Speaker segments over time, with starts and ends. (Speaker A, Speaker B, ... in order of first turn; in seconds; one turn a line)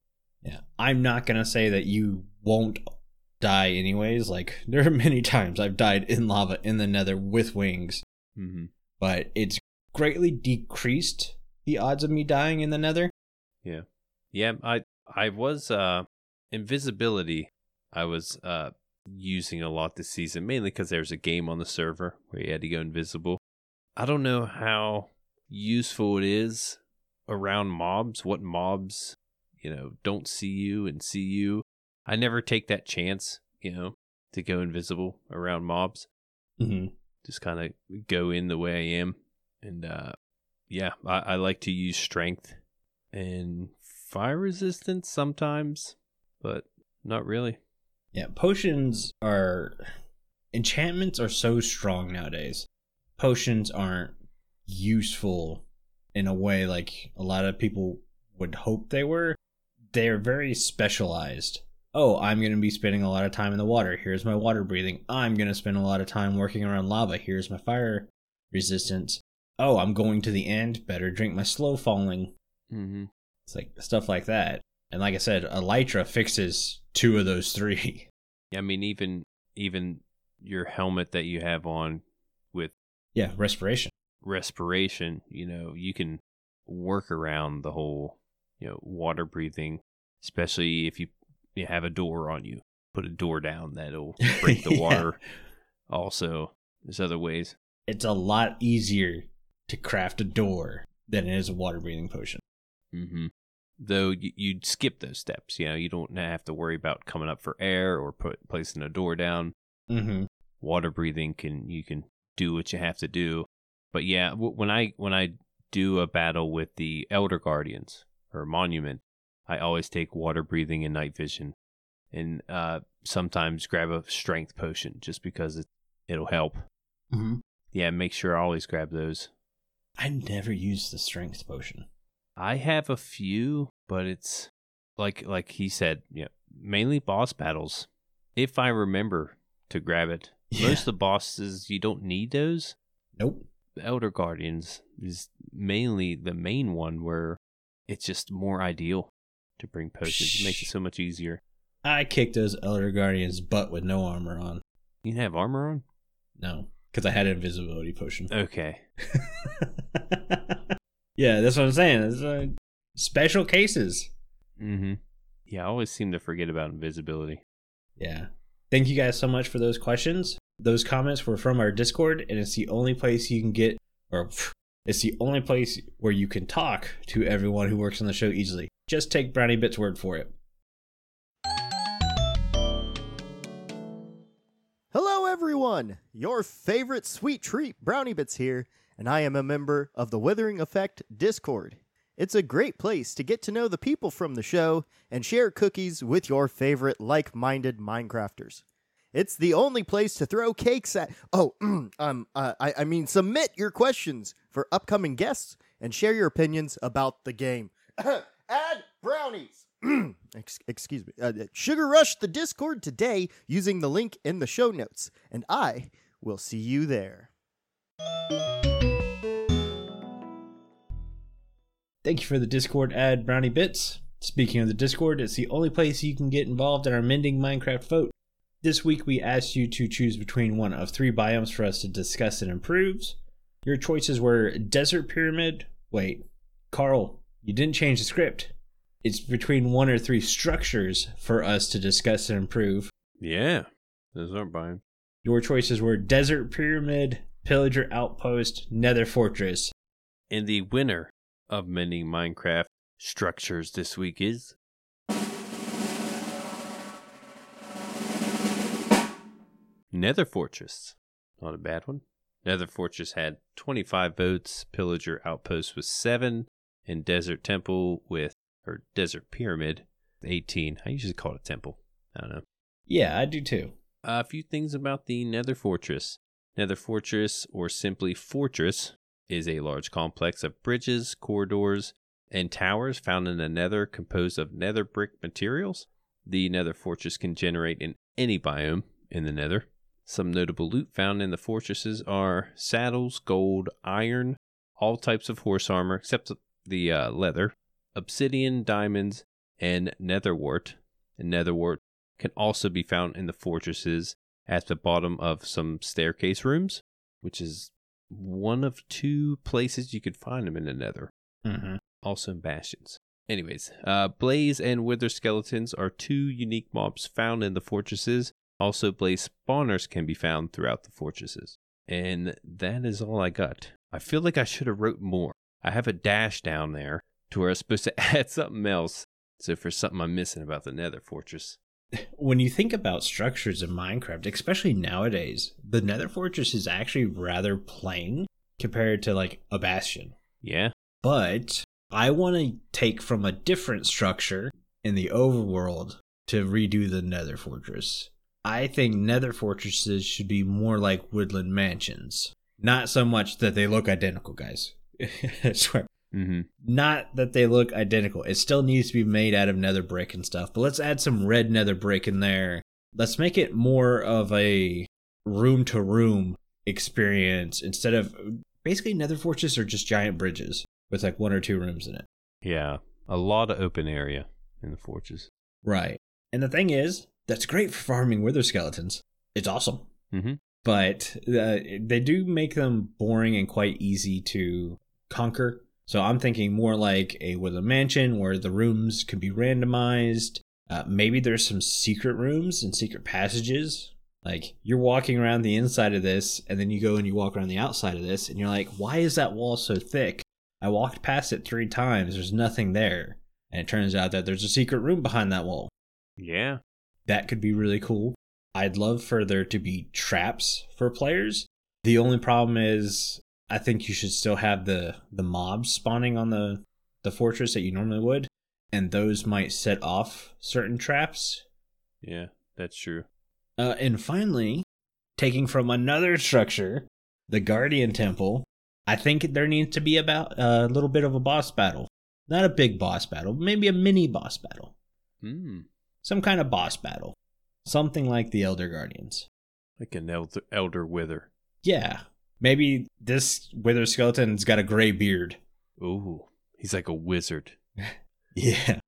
Speaker A: 0.4-2.8
Speaker A: 3.4-8.0
Speaker B: 8.3-8.7
Speaker A: 9.0-13.1
Speaker B: 13.6-23.4
Speaker B: 24.0-36.1
Speaker A: 36.6-36.9
Speaker B: 37.2-40.1
Speaker B: 40.7-42.6
Speaker B: 43.1-47.6
Speaker A: 48.1-49.8
Speaker A: 50.5-52.7
Speaker A: 53.2-54.1
Speaker A: 54.7-59.4
Speaker A: 59.9-72.3
Speaker B: 72.7-73.1
Speaker A: 73.5-78.1
Speaker B: 78.5-82.7
Speaker A: 83.1-83.9
Speaker B: 84.2-95.2
Speaker A: 94.4-95.1
Speaker B: 95.9-97.5
Speaker A: 97.9-102.4
Speaker B: 102.9-109.5
Speaker A: 109.9-110.3
Speaker B: 110.6-121.5
Speaker B: 122.1-126.6
Speaker A: 127.1-127.4
Speaker B: 127.7-129.3
Speaker A: 130.0-131.8
Speaker B: 132.4-142.8
Speaker A: 140.5-140.8
Speaker A: 143.2-143.4
Speaker B: 143.8-151.4
Speaker A: 150.0-150.7
Speaker A: 151.8-154.6
Speaker B: 155.0-155.8
Speaker A: 156.4-158.3
Speaker B: 158.3-158.8
Speaker A: 159.1-160.6
Speaker A: 161.2-164.1
Speaker B: 164.6-167.4
Speaker A: 168.0-180.3
Speaker C: 184.9-198.6
Speaker C: 199.1-217.3
Speaker A: 222.0-238.5
Speaker A: 239.0-242.9
Speaker B: 243.2-244.8
Speaker A: 245.2-249.7
Speaker B: 250.3-254.5
Speaker B: 259.9-272.4
Speaker A: 272.9-273.7
Speaker B: 274.0-311.1
Speaker A: 311.4-311.8
Speaker B: 312.0-331.6
Speaker A: 331.9-340.1
Speaker B: 340.4-340.7
Speaker A: 341.0-355.9
Speaker B: 356.1-356.5
Speaker A: 356.6-372.1
Speaker B: 372.4-375.3
Speaker A: 375.6-379.9
Speaker B: 380.1-380.4
Speaker A: 380.6-405.7
Speaker B: 406.2-406.6
Speaker A: 407.1-421.4
Speaker B: 422.0-423.1
Speaker A: 423.6-424.6
Speaker A: 425.2-434.7
Speaker B: 435.2-435.7
Speaker A: 436.0-439.3
Speaker B: 439.8-441.3
Speaker A: 441.6-445.4
Speaker B: 445.8-447.6
Speaker A: 447.8-448.8